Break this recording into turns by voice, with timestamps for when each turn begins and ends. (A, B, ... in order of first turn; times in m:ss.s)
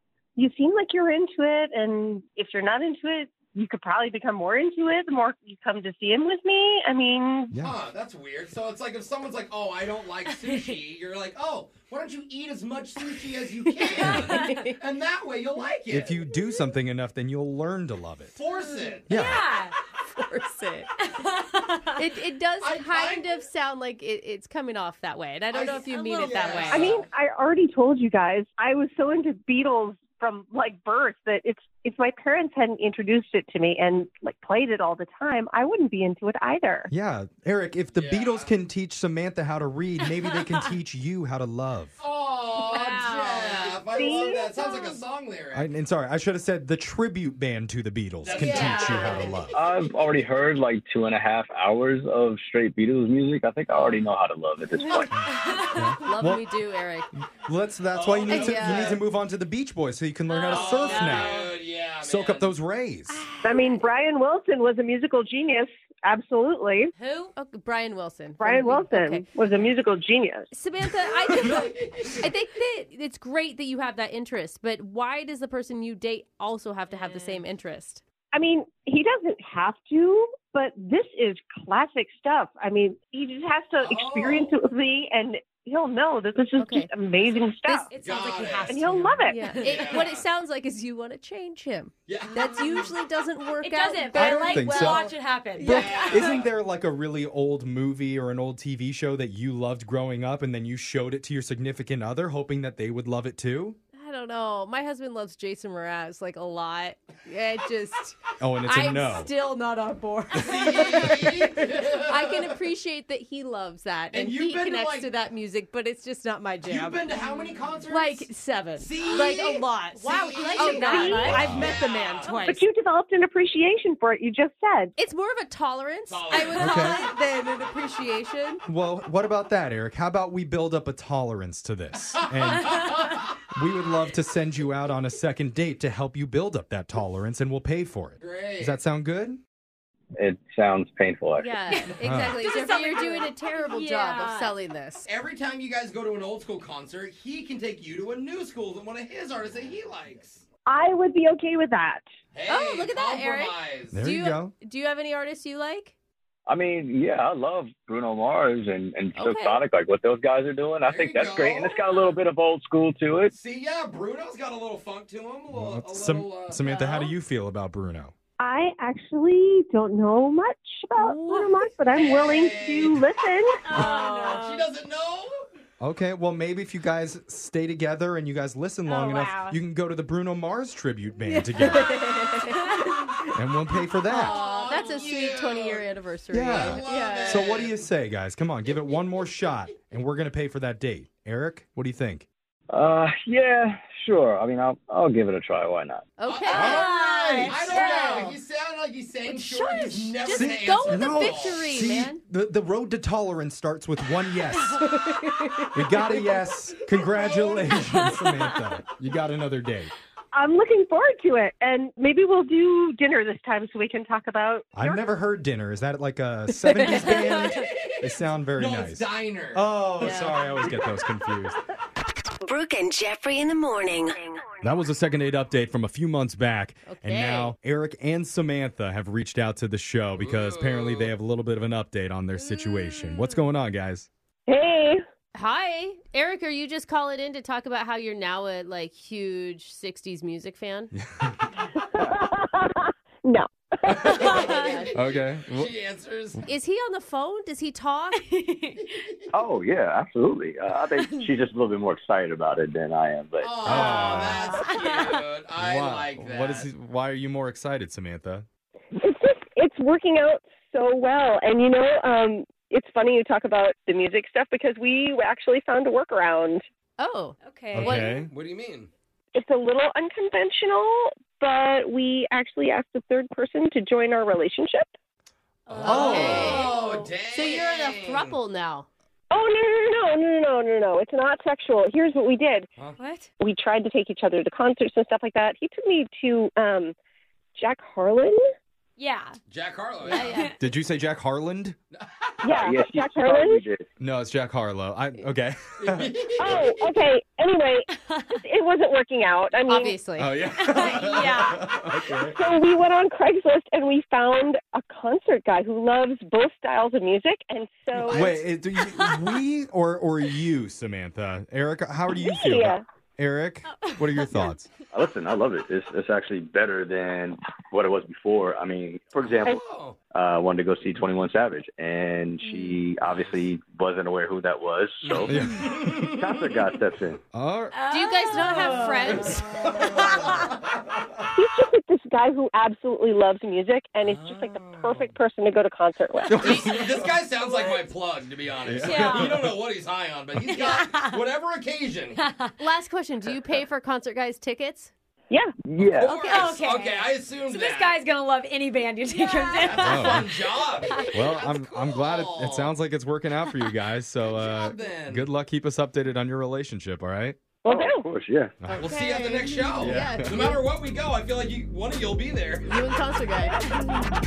0:00.4-0:07.5 A
0:07.5-0:07.8 B
0:07.5-0:16.2 C
0:10.3-0:10.8 D
0:13.7-0:14.8 E
0:14.1-0:14.6 D
0:15.9-0:18.3 B
0:18.3-0:19.2 C
0:18.7-0:19.8 D
0:19.1-0:19.5 B
0:20.1-0:20.9 E
0:21.0-0:22.0 D
0:22.0-0:27.0 E
0:22.6-0:23.4 C
0:25.5-0:27.1 C
0:25.8-0:26.9 D
0:26.7-0:36.9 A
0:36.9-0:42.0 B
0:37.9-0:38.5 C
0:42.0-0:45.7 C
0:42.7-0:44.8 D
0:43.9-0:44.8 A
0:45.5-0:49.6 B
0:48.2-0:49.4 C
0:48.3-0:49.3 E
0:49.5-0:55.2 F
0:55.3-0:56.1 D
0:55.7-0:56.5 B
0:56.0-0:57.1 E
0:57.2-1:01.4 B
0:57.9-0:59.0 C
0:58.3-0:59.0 E
1:00.3-1:01.6 D
1:00.5-1:02.6 C
1:02.0-1:03.2 B
1:03.1-1:03.8 D
1:03.4-1:06.9 A
1:07.0-1:07.4 D
1:07.4-1:09.3 E
1:08.4-1:10.5 A
1:10.5-1:18.0 E
1:11.0-1:12.2 C
1:16.9-1:17.5 D
1:18.3-1:27.9 A
1:23.8-1:24.6 C
1:26.6-1:26.9 E
1:27.2-1:30.0 D
1:27.9-1:28.8 C
1:28.7-1:29.6 A
1:29.3-1:35.2 E
1:29.6-1:30.2 C
1:32.1-1:32.5 C
1:32.4-1:32.9 D
1:33.6-1:36.4 D
1:34.1-1:43.8 B
1:35.6-1:36.5 C
1:44.0-1:57.1 E
1:48.4-1:49.3 B
1:50.4-1:52.6 C
1:54.1-1:55.1 C
1:56.6-2:02.4 C
1:57.9-2:02.6 E
1:59.9-2:01.5 D
2:00.6-2:01.4 A
2:01.3-2:01.8 B
2:02.4-2:04.9 A
2:05.0-2:08.6 E
2:06.1-2:07.9 C
2:06.6-2:07.0 B
2:08.7-2:12.9 B
2:12.7-2:13.2 C
2:13.5-2:19.4 B
2:18.2-2:18.8 C
2:20.2-2:21.6 F
2:21.4-2:25.1 E
2:21.7-2:24.5 D
2:22.0-2:22.4 B
2:25.1-2:30.4 C
2:30.7-2:32.0 A
2:32.3-2:34.0 C
2:32.5-2:36.0 E
2:33.9-2:34.5 B
2:36.5-2:43.3 F
2:39.2-2:39.6 E
2:40.8-2:42.2 C
2:43.3-2:46.6 C
2:45.5-2:48.1 B
2:46.6-2:47.1 E
2:48.4-2:53.6 A
2:51.1-2:51.6 E
2:51.9-2:53.1 C
2:53.6-2:54.7 D
2:53.9-2:55.4 C
2:55.8-3:02.0 B
2:58.9-2:59.3 D
3:01.3-3:03.3 E
3:02.5-3:03.0 D
3:03.3-3:04.4 B
3:04.0-3:07.6 E
3:04.1-3:05.2 D
3:04.2-3:05.9 C
3:06.3-3:12.3 B
3:06.5-3:07.8 C
3:12.7-3:16.2 F
3:16.2-3:18.4 E
3:16.3-3:21.6 C
3:16.5-3:16.9 B
3:16.5-3:18.3 D
3:19.3-3:22.2 E
3:20.3-3:24.8 B
3:24.8-3:26.0 E
3:25.7-3:29.9 B
3:27.9-3:28.3 D
3:30.3-3:35.0 A
3:34.7-3:41.6 B
3:36.8-3:37.4 D
3:37.5-3:38.0 C
3:38.6-3:39.7 C
3:40.0-3:40.5 E
3:42.4-3:44.4 G
3:44.6-3:54.1 B
3:46.9-3:47.5 E
3:50.2-3:51.1 C
3:54.5-3:55.0 A
3:55.3-4:00.9 E
4:00.9-4:01.5 B
4:01.9-4:04.6 A
4:04.1-4:06.4 C
4:04.2-4:04.7 D
4:04.4-4:04.9 E
4:04.9-4:05.7 B
4:06.5-4:08.2 E
4:08.2-4:09.1 D
4:09.3-4:13.7 F
4:11.0-4:11.3 D
4:13.4-4:16.7 C
4:13.6-4:14.6 B
4:13.7-4:15.2 D
4:15.6-4:18.5 B
4:18.9-4:26.6 A
4:27.0-4:28.2 E
4:27.4-4:28.0 D
4:27.7-4:28.3 B
4:28.3-4:28.9 C
4:29.4-4:34.9 A
4:35.7-4:37.1 D
4:35.8-4:36.7 B
4:35.8-4:38.4 C
4:35.8-4:38.9 E
4:39.3-4:42.7 A
4:43.0-4:43.3 D
4:43.4-4:46.9 A
4:47.6-4:48.4 A
4:49.0-4:49.4 D
4:49.5-4:50.5 C
4:50.0-4:50.5 E
4:50.2-4:50.6 D
4:50.6-4:51.8 B
4:51.9-4:52.6 C
4:52.4-4:53.6 A
4:52.6-4:53.8 F
4:54.0-4:56.2 B
4:55.8-4:56.9 C
4:56.4-5:00.0 A
4:59.7-5:00.3 E
5:00.2-5:02.4 B
5:00.6-5:01.6 D
5:00.6-5:01.8 C
5:02.1-5:08.5 A
5:08.0-5:14.7 B
5:12.1-5:12.8 A
5:13.8-5:14.3 D
5:14.9-5:25.5 F
5:19.2-5:20.0 C
5:22.4-5:22.8 D
5:23.0-5:23.5 C
5:25.0-5:26.6 C
5:25.3-5:26.0 B
5:26.0-5:27.2 F
5:27.3-5:27.8 B
5:27.7-5:30.4 D
5:27.9-5:29.5 E
5:29.8-5:31.1 C
5:31.3-5:36.6 A
5:34.0-5:35.1 C
5:36.3-5:37.0 B
5:36.4-5:42.2 C
5:38.6-5:39.6 B
5:38.8-5:39.3 D
5:40.5-5:41.2 D
5:42.2-5:42.6 D
5:42.6-5:44.9 E
5:45.6-5:46.2 F
5:46.0-5:47.1 E
5:46.0-5:48.0 C
5:46.3-5:46.9 D
5:47.4-5:51.1 D
5:49.3-5:52.8 C
5:49.8-5:50.3 B
5:51.1-5:57.4 B
5:54.3-5:55.3 C
5:57.6-5:58.1 A
5:57.7-5:58.6 F
5:58.6-5:58.9 B
5:58.7-6:02.8 C
5:58.7-6:00.6 E
5:59.8-6:00.5 B
6:02.6-6:03.7 E